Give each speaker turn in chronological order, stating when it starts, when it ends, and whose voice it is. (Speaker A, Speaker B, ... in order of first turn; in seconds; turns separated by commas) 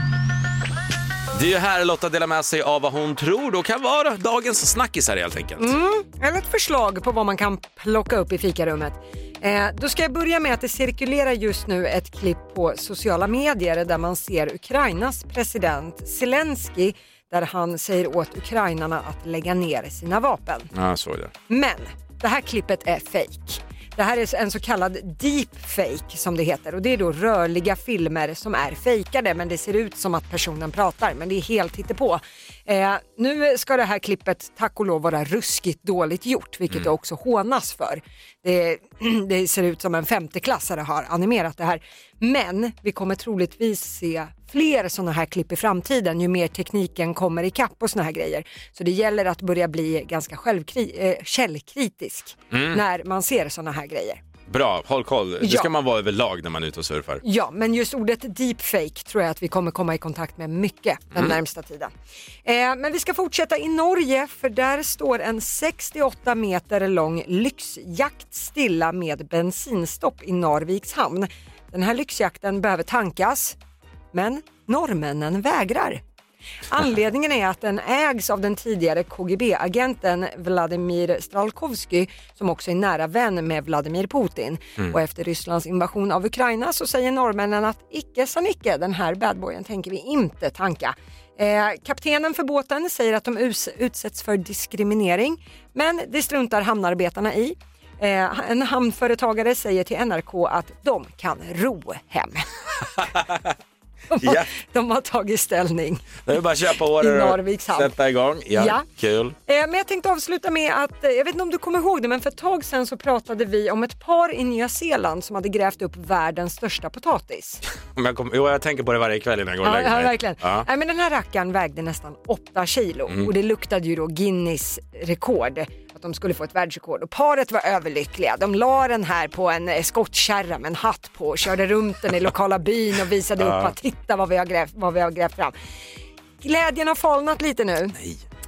Speaker A: 1.3-5.7, Speaker B: 5.6-20.7, Speaker A: 20.7-21.3, Speaker B: 21.5-54.2, Speaker A: 52.5-52.8, Speaker A: 54.5-57.2, Speaker B: 55.4-55.7, Speaker B: 57.2-61.9, Speaker B: 62.5-73.6, Speaker B: 74.1-76.0, Speaker B: 76.7-102.5, Speaker A: 103.0-103.5, Speaker B: 104.1-106.1, Speaker A: 104.2-104.5, Speaker A: 106.2-109.4, Speaker B: 107.0-107.9, Speaker B: 108.5-108.8, Speaker B: 109.5-117.6, Speaker A: 117.9-120.7, Speaker B: 119.6-135.5, Speaker A: 133.4-133.8, Speaker B: 136.4-138.0, Speaker A: 138.0-138.2